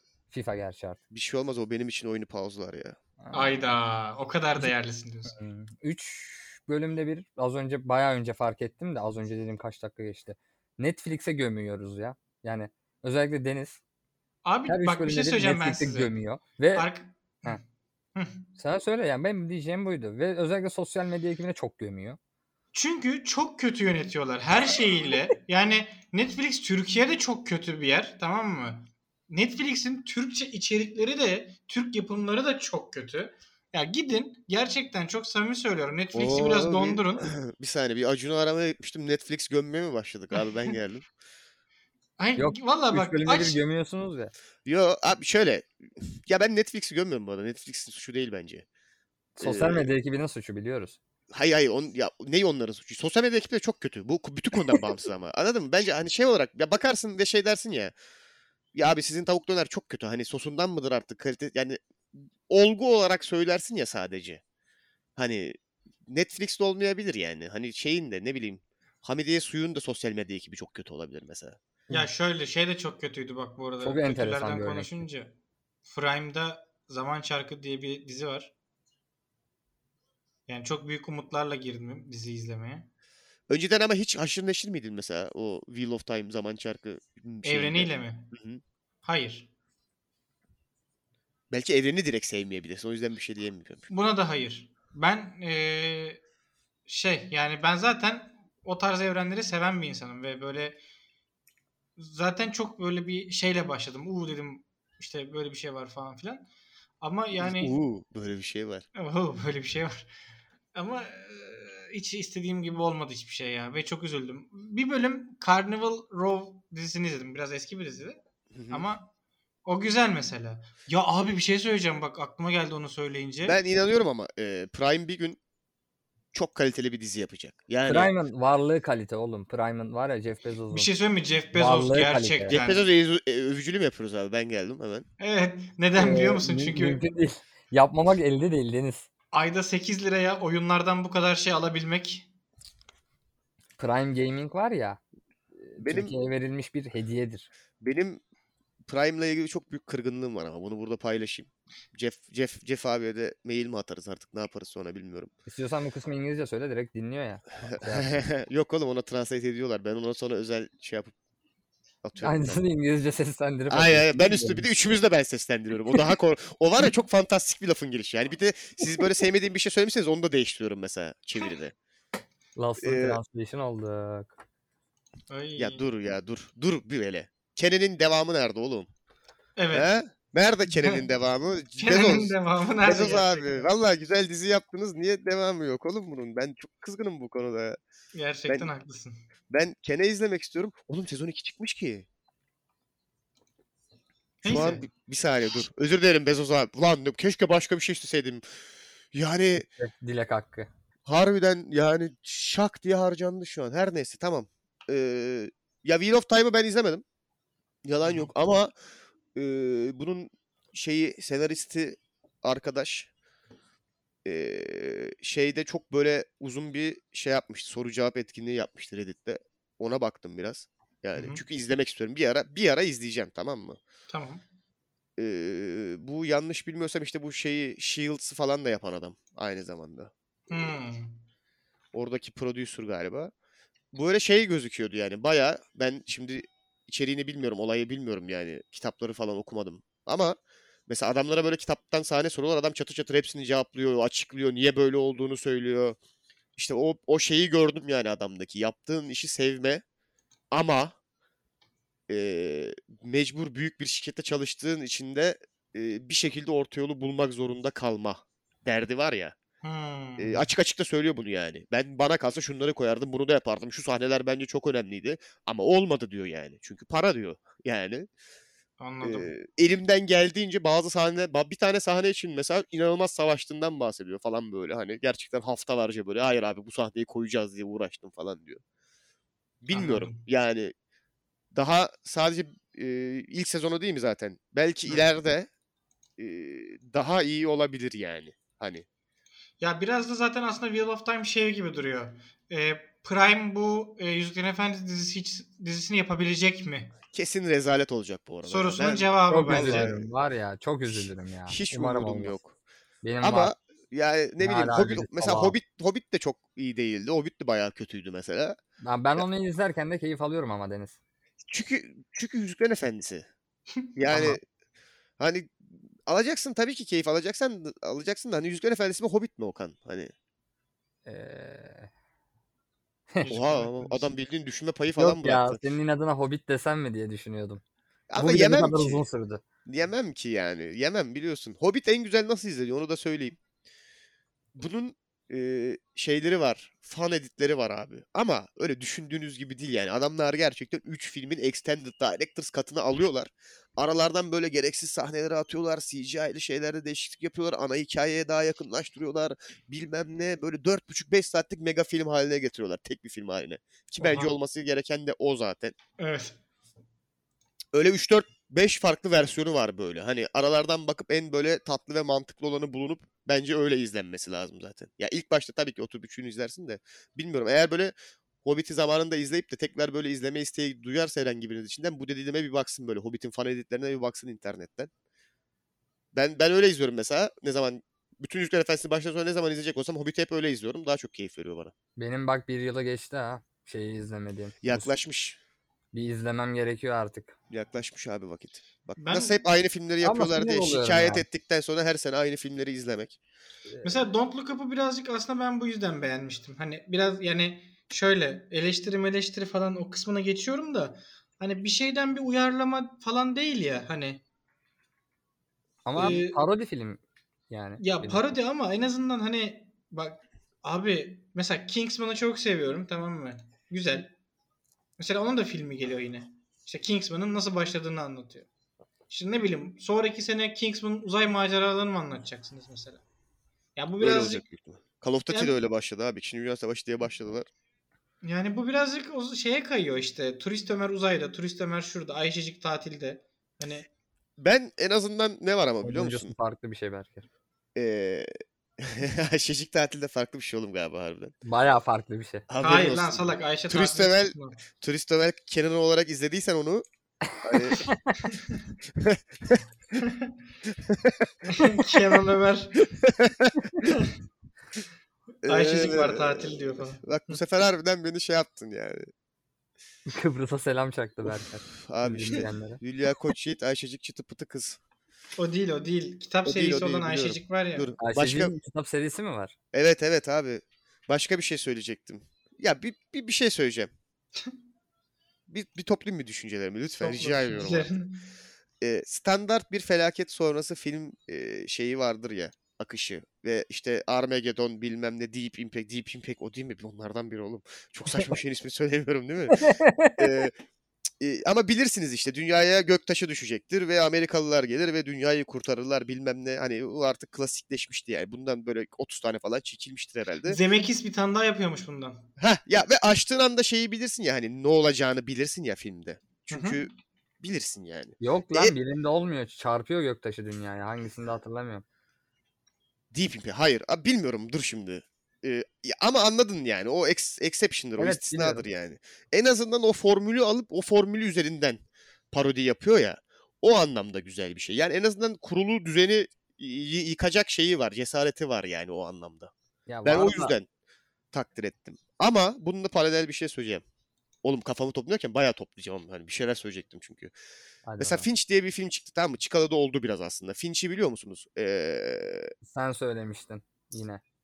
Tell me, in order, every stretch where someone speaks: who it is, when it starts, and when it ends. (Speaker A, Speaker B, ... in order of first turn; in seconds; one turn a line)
Speaker A: 0.3-1.0
Speaker B: 1.1-3.0
Speaker A: 3.2-3.6
Speaker C: 3.3-5.3
Speaker A: 5.3-13.8
Speaker C: 14.4-16.1
Speaker A: 14.7-16.9
Speaker C: 16.7-17.6
Speaker C: 18.1-18.4
Speaker A: 18.6-22.2
Speaker C: 22.7-37.3
Speaker B: 36.1-41.1
Speaker C: 42.2-43.6
Speaker A: 42.4-44.3
Speaker B: 44.6-48.6
Speaker A: 49.4-51.0
Speaker B: 49.4-49.9
Speaker B: 51.3-57.9
Speaker B: 58.7-64.4
Speaker B: 65.2-71.6
Speaker C: 71.9-75.3
Speaker A: 73.8-75.0
Speaker C: 75.8-78.5
Speaker C: 80.5-82.9
Speaker B: 83.5-88.6
Speaker C: 87.4-88.3
Speaker C: 89.0-89.5
Speaker B: 91.5-93.9
Speaker C: 93.9-96.2
Speaker C: 96.9-100.8
Speaker C: 102.0-106.5
Speaker C: 107.0-107.7
Speaker B: 107.4-108.8
Speaker C: 108.9-110.1
Speaker C: 110.7-119.1
Speaker B: 118.5-118.9
Speaker C: 119.7-123.6
Speaker B: 123.4-125.4
Speaker B: 126.3-128.1
Speaker A: 127.9-130.9
Speaker C: 130.7-132.8
Speaker A: 131.5-132.6
Speaker B: 132.5-135.0
Speaker C: 135.2-137.0
Speaker A: 135.9-139.1
Speaker C: 139.3-142.3
Speaker A: 143.8-145.0
Speaker A: 145.6-147.5
Speaker B: 145.8-146.1
Speaker B: 147.8-148.2
Speaker B: 148.9-155.3
Speaker A: 155.5-158.1
Speaker B: 157.7-161.1
Speaker B: 162.0-162.6
Speaker A: 162.2-164.7
Speaker B: 163.7-171.7
Speaker A: 172.6-174.3
Speaker B: 172.8-173.2
Speaker C: 175.3-175.8
Speaker B: 175.6-178.9
Speaker C: 179.6-179.9
Speaker B: 179.7-187.8
Speaker C: 180.7-181.0
Speaker C: 181.8-183.7
Speaker C: 188.1-189.2
Speaker B: 189.5-192.1
Speaker C: 194.4-194.8
Speaker B: 194.4-198.4
Speaker B: 199.1-199.7
Speaker A: 199.8-200.7
Speaker B: 201.1-207.0
Speaker B: 207.8-208.7
Speaker C: 208.0-208.3
Speaker B: 209.3-213.1
Speaker B: 214.2-223.8
Speaker C: 221.1-221.4
Speaker C: 224.1-224.4
Speaker B: 225.2-230.7
Speaker C: 230.5-231.1
Speaker B: 231.9-233.3
Speaker B: 233.9-240.4
Speaker B: 240.9-246.0
Speaker B: 246.6-249.8
Speaker B: 250.5-250.9
Speaker B: 252.1-259.4
Speaker C: 259.6-260.5
Speaker B: 260.2-268.1
Speaker C: 268.8-269.3
Speaker B: 269.0-278.6
Speaker B: 279.6-280.7
Speaker C: 279.7-280.2
Speaker B: 281.5-285.5
Speaker B: 286.2-288.9
Speaker C: 289.6-296.9
Speaker B: 297.1-300.0
Speaker C: 298.4-300.0
Speaker A: 299.3-302.4
Speaker B: 300.9-302.5
Speaker A: 303.0-303.5
Speaker B: 303.2-308.6
Speaker A: 304.4-305.6
Speaker A: 308.8-311.0
Speaker B: 311.4-313.2
Speaker B: 313.9-314.4
Speaker A: 314.1-314.4
Speaker B: 315.2-320.1
Speaker A: 321.1-321.9
Speaker C: 323.2-324.1
Speaker B: 323.3-325.6
Speaker A: 324.9-327.6
Speaker B: 328.1-329.0
Speaker A: 328.1-329.4
Speaker B: 329.6-333.4
Speaker B: 334.5-355.7
Speaker C: 354.0-354.3
Speaker C: 356.0-356.4
Speaker B: 357.7-367.9
Speaker B: 368.4-374.9
Speaker B: 376.1-381.7
Speaker A: 382.0-384.9
Speaker B: 384.6-385.4
Speaker A: 385.9-387.3
Speaker B: 387.5-393.2
Speaker C: 389.0-389.4
Speaker A: 390.0-391.2
Speaker A: 393.7-394.1
Speaker C: 393.8-404.2
Speaker A: 405.8-408.2
Speaker C: 405.9-406.4
Speaker C: 407.8-414.1
Speaker C: 415.0-418.5
Speaker C: 419.1-423.0
Speaker C: 423.8-424.4
Speaker B: 424.0-427.5
Speaker C: 428.2-433.9
Speaker B: 434.4-436.3
Speaker A: 435.8-437.2
Speaker B: 437.7-441.3
Speaker A: 441.4-442.4
Speaker B: 442.5-446.8
Speaker C: 442.6-444.6
Speaker B: 447.4-447.9
Speaker A: 447.5-448.2
Speaker B: 448.9-449.6
Speaker C: 450.0-450.3
Speaker B: 450.7-451.3
Speaker C: 451.5-452.8
Speaker B: 452.9-453.9
Speaker B: 455.4-459.1
Speaker C: 455.4-457.4
Speaker A: 460.1-462.8
Speaker B: 461.2-464.8
Speaker C: 465.4-467.9
Speaker B: 466.4-468.5
Speaker A: 468.0-469.5
Speaker B: 469.7-473.9
Speaker B: 475.5-477.9
Speaker C: 477.0-478.2
Speaker B: 478.8-490.5
Speaker A: 489.5-490.3
Speaker B: 491.2-500.6
Speaker C: 500.4-502.2
Speaker B: 502.4-506.9
Speaker C: 506.5-506.9
Speaker B: 507.4-508.7
Speaker A: 508.2-511.8
Speaker B: 513.1-521.8
Speaker A: 518.0-518.6
Speaker B: 522.3-529.5
Speaker A: 529.9-530.5
Speaker B: 530.0-530.7
Speaker B: 531.3-533.8
Speaker B: 534.4-537.3
Speaker A: 537.9-538.3
Speaker B: 538.0-542.5
Speaker A: 542.6-544.2